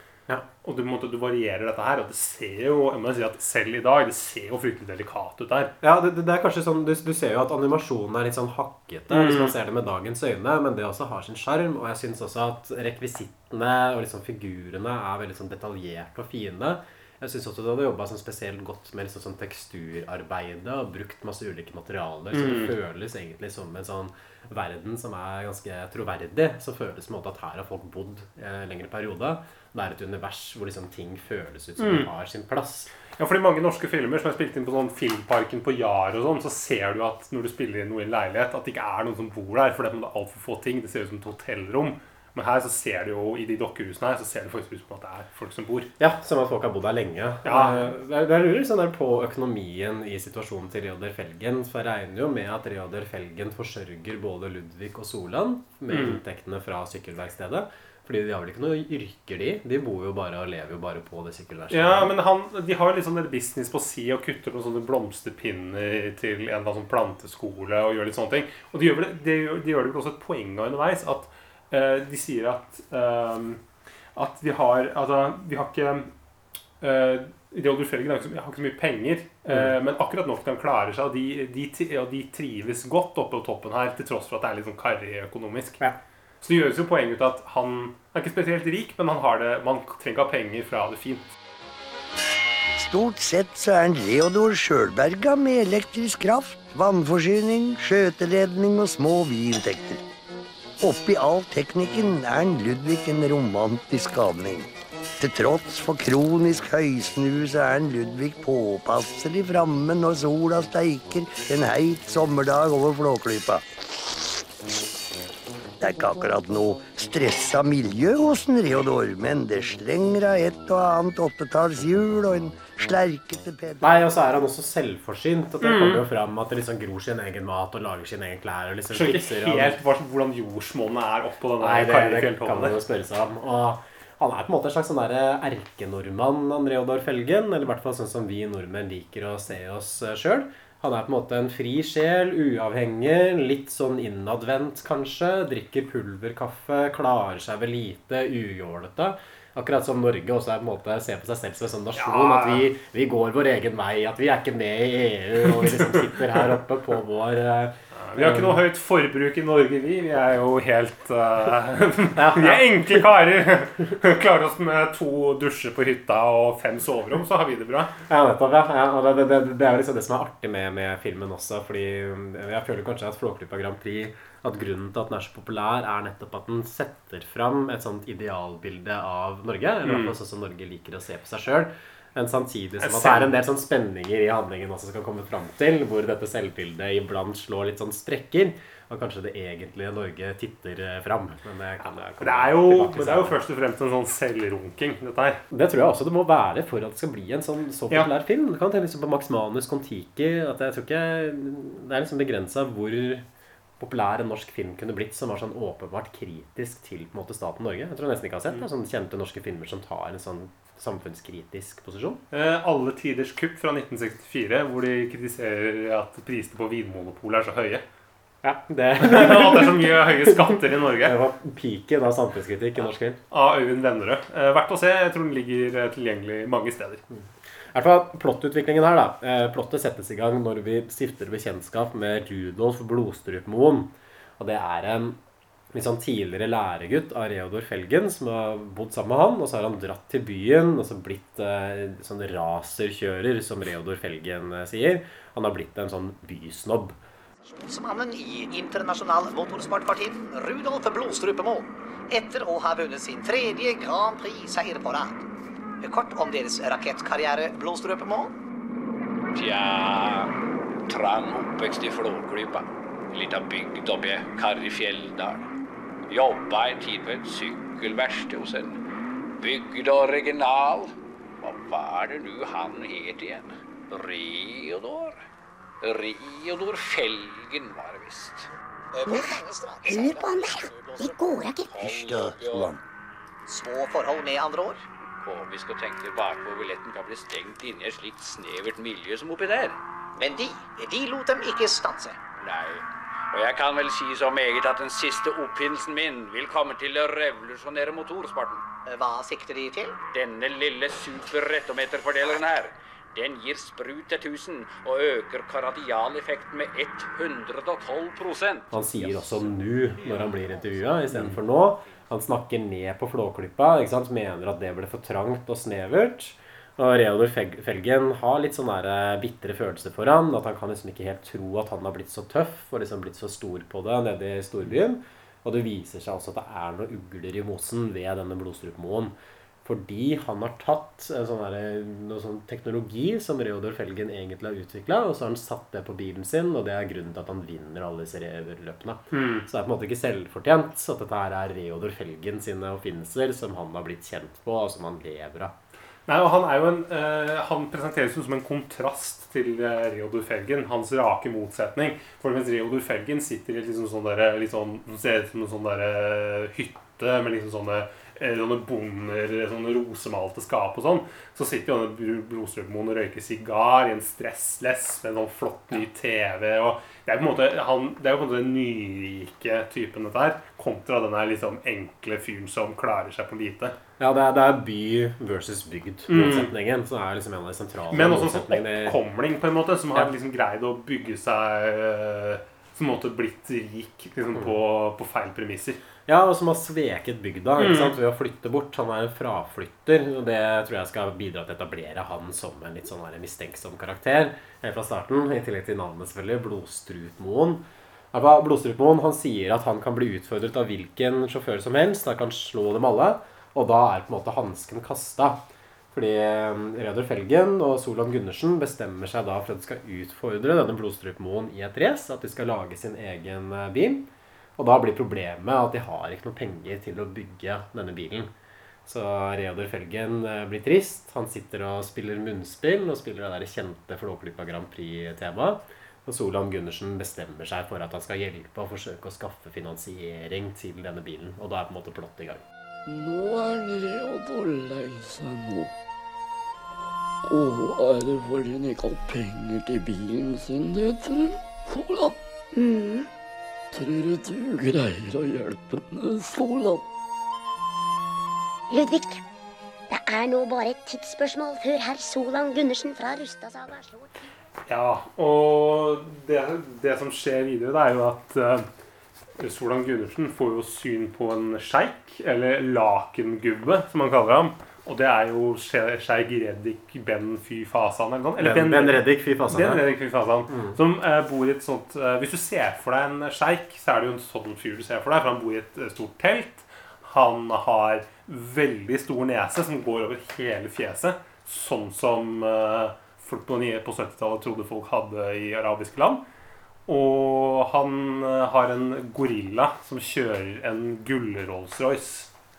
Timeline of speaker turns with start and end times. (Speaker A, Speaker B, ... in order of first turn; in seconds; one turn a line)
Speaker A: 0.6-5.7
Speaker B: 5.8-32.9
Speaker A: 9.1-9.5
Speaker A: 22.3-22.7
Speaker A: 31.8-32.1
Speaker A: 33.2-45.9
Speaker B: 46.0-62.1
Speaker A: 47.4-47.9
Speaker A: 55.9-56.2
Speaker A: 61.7-73.6
Speaker A: 74.1-76.1
Speaker A: 76.8-85.8
Speaker A: 86.4-91.2
Speaker C: 92.8-100.0
Speaker C: 100.8-104.7
Speaker C: 105.2-113.6
Speaker C: 115.8-123.9
Speaker B: 123.8-129.8
Speaker A: 125.6-126.0
Speaker A: 128.9-132.8
Speaker B: 131.6-158.6
Speaker A: 152.0-152.7
Speaker A: 155.5-156.0
Speaker A: 157.9-167.9
Speaker B: 162.2-163.1
Speaker B: 168.1-193.3
Speaker A: 179.8-180.1
Speaker A: 182.8-183.3
Speaker A: 192.2-195.4
Speaker B: 195.5-203.2
Speaker B: 203.8-212.2
Speaker A: 212.3-217.8
Speaker B: 218.4-223.2
Speaker A: 219.0-221.2
Speaker A: 223.3-227.0
Speaker B: 227.1-235.2
Speaker B: 235.7-247.0
Speaker D: 247.4-255.2
Speaker D: 255.8-258.3
Speaker E: 259.3-260.3
Speaker E: 260.9-265.5
Speaker E: 266.1-268.8
Speaker E: 269.4-275.2
Speaker E: 275.8-278.5
Speaker D: 278.9-280.1
Speaker E: 279.8-281.1
Speaker F: 279.8-281.7
Speaker E: 281.7-282.8
Speaker C: 281.8-282.8
Speaker D: 283.5-284.8
Speaker E: 285.2-289.8
Speaker D: 290.1-292.2
Speaker E: 292.4-298.6
Speaker D: 298.9-299.9
Speaker E: 300.1-309.5
Speaker B: 308.7-329.1
Speaker E: 310.1-311.3
Speaker B: 329.6-345.5
Speaker A: 339.1-339.4
Speaker A: 346.1-373.8
Speaker B: 374.0-379.0
Speaker A: 376.1-376.5
Speaker A: 377.9-385.8
Speaker B: 386.1-405.4
Speaker A: 387.6-387.9
Speaker B: 405.9-418.3
Speaker B: 418.9-432.4
Speaker G: 432.9-435.7
Speaker G: 437.3-442.2
Speaker F: 442.6-443.1
Speaker G: 443.7-446.8
Speaker F: 448.7-449.2
Speaker F: 449.9-454.1
Speaker A: 454.7-458.6
Speaker A: 459.4-486.2
Speaker B: 468.4-469.8
Speaker B: 470.5-470.8
Speaker A: 486.9-492.3